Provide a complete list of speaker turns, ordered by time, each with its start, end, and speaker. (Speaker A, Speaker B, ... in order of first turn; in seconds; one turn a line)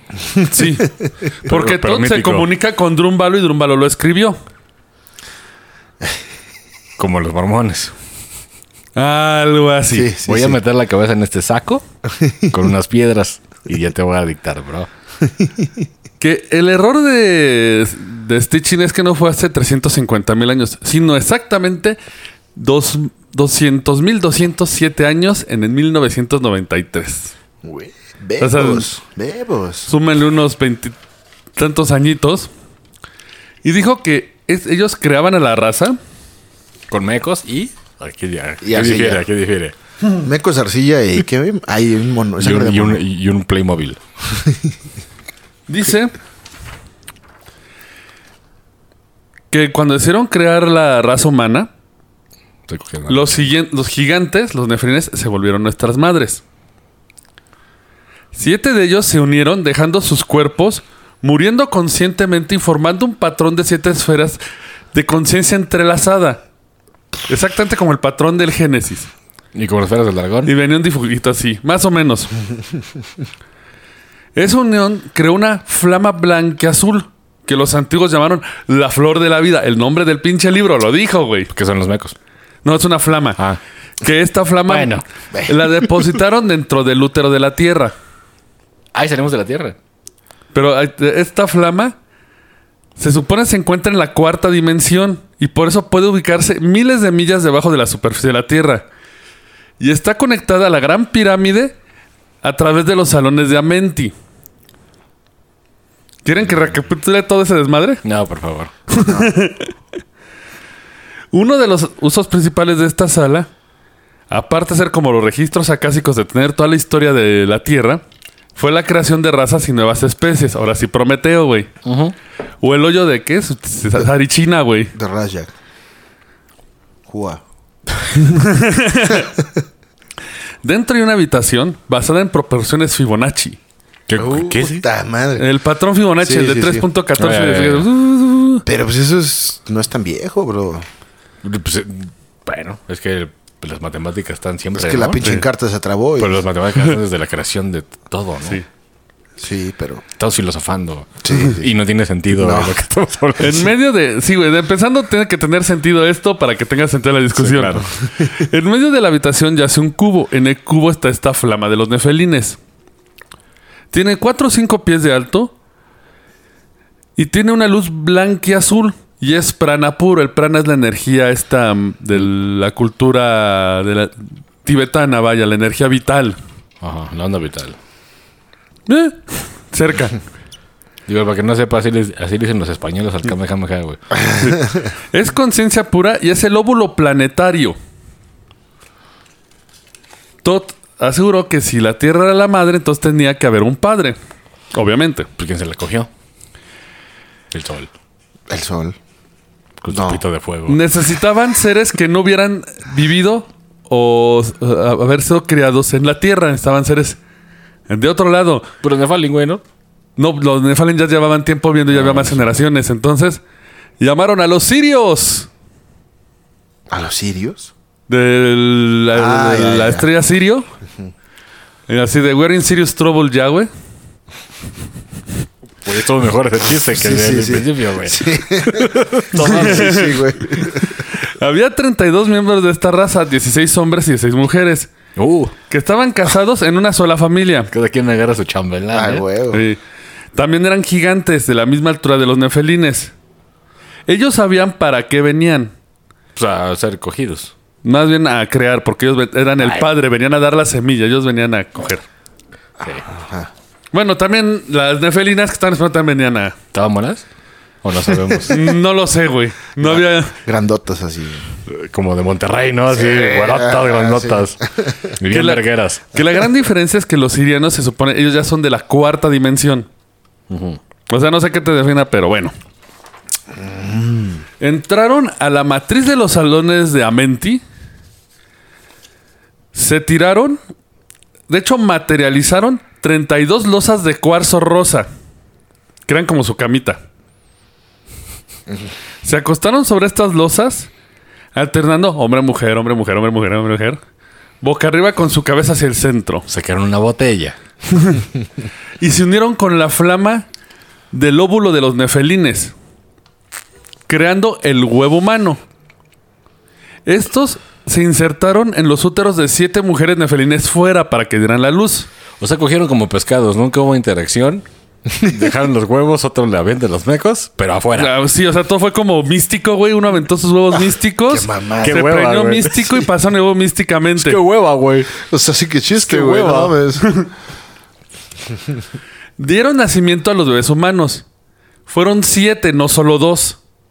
Speaker A: 0.5-4.4
Speaker B: 1.4-2.5
Speaker B: 7.0-7.9
Speaker A: 8.9-10.1
Speaker C: 9.9-10.6
Speaker B: 10.2-11.8
Speaker C: 12.2-12.6
Speaker B: 12.5-14.9
Speaker C: 15.4-15.7
Speaker A: 16.2-22.0
Speaker A: 22.5-27.3
Speaker C: 27.6-29.9
Speaker A: 28.4-28.9
Speaker A: 29.9-30.9
Speaker A: 31.6-32.5
Speaker A: 33.6-36.0
Speaker B: 36.9-39.7
Speaker C: 38.6-39.2
Speaker C: 40.2-43.0
Speaker B: 42.4-44.0
Speaker C: 44.3-44.7
Speaker A: 45.7-46.1
Speaker A: 49.5-51.7
Speaker B: 52.7-53.5
Speaker A: 53.1-56.4
Speaker A: 58.3-64.4
Speaker A: 64.9-66.4
Speaker A: 67.3-69.1
Speaker B: 69.5-70.5
Speaker A: 70.4-72.3
Speaker A: 74.3-81.5
Speaker B: 81.5-82.1
Speaker A: 82.6-83.4
Speaker A: 84.0-87.9
Speaker B: 84.7-85.0
Speaker B: 88.9-89.8
Speaker A: 90.5-92.0
Speaker A: 93.0-98.8
Speaker A: 99.8-101.7
Speaker A: 102.4-104.1
Speaker A: 106.2-108.0
Speaker B: 106.4-106.8
Speaker B: 108.0-109.3
Speaker A: 108.9-109.7
Speaker A: 111.3-113.5
Speaker A: 114.3-118.0
Speaker A: 118.5-121.7
Speaker B: 121.8-122.1
Speaker A: 122.6-124.9
Speaker C: 124.9-125.5
Speaker C: 127.1-127.4
Speaker A: 128.2-129.3
Speaker C: 129.2-129.5
Speaker A: 130.6-133.6
Speaker B: 134.1-134.8
Speaker C: 134.1-135.5
Speaker A: 135.4-138.6
Speaker C: 136.2-136.8
Speaker B: 137.2-137.9
Speaker C: 138.6-140.8
Speaker B: 141.4-145.4
Speaker C: 144.7-146.4
Speaker B: 146.2-148.6
Speaker C: 149.4-150.0
Speaker B: 150.2-153.7
Speaker C: 151.2-151.7
Speaker C: 152.3-152.7
Speaker A: 153.4-162.6
Speaker B: 157.3-157.9
Speaker A: 163.9-165.5
Speaker A: 167.2-176.4
Speaker B: 176.8-177.8
Speaker A: 178.9-180.2
Speaker B: 181.1-184.0
Speaker A: 184.4-187.8
Speaker A: 190.4-194.2
Speaker A: 194.7-195.3
Speaker B: 195.4-196.1
Speaker B: 197.5-197.9
Speaker C: 198.5-199.0
Speaker B: 199.8-200.8
Speaker C: 199.9-200.2
Speaker A: 200.7-207.2
Speaker A: 207.9-208.7
Speaker B: 208.8-209.6
Speaker A: 210.2-213.4
Speaker B: 211.9-212.5
Speaker A: 214.0-215.5
Speaker C: 216.9-217.7
Speaker A: 218.1-220.7
Speaker C: 219.1-220.1
Speaker A: 221.9-223.7
Speaker B: 225.8-230.2
Speaker C: 226.9-231.0
Speaker A: 229.3-234.9
Speaker B: 235.2-235.5
Speaker A: 235.7-237.7
Speaker B: 237.7-239.2
Speaker C: 238.9-239.6
Speaker A: 239.5-239.8
Speaker A: 240.3-243.1
Speaker A: 244.1-245.7
Speaker B: 246.3-247.5
Speaker A: 247.8-252.0
Speaker B: 249.6-249.9
Speaker C: 252.8-253.5
Speaker A: 253.9-256.6
Speaker B: 256.7-257.2
Speaker B: 257.8-258.6
Speaker A: 258.5-260.4
Speaker C: 259.8-261.4
Speaker B: 261.7-264.6
Speaker C: 262.9-265.1
Speaker B: 265.1-266.0
Speaker A: 265.3-269.9
Speaker B: 270.5-270.8
Speaker A: 271.1-272.5
Speaker C: 273.5-274.4
Speaker A: 274.6-277.6
Speaker A: 279.7-280.6
Speaker A: 281.5-285.1
Speaker A: 286.1-287.0
Speaker A: 289.2-290.9
Speaker A: 291.5-294.0
Speaker A: 294.6-296.4
Speaker B: 296.5-297.6
Speaker A: 299.0-300.4
Speaker A: 301.1-302.7
Speaker A: 304.1-305.6
Speaker A: 307.1-312.1
Speaker B: 312.4-314.6
Speaker C: 315.1-315.4
Speaker B: 315.2-318.1
Speaker A: 317.9-324.4
Speaker C: 321.3-322.0
Speaker B: 321.8-323.0
Speaker B: 324.2-325.1
Speaker C: 325.2-327.2
Speaker B: 325.9-326.8
Speaker A: 329.4-331.2
Speaker A: 331.9-333.6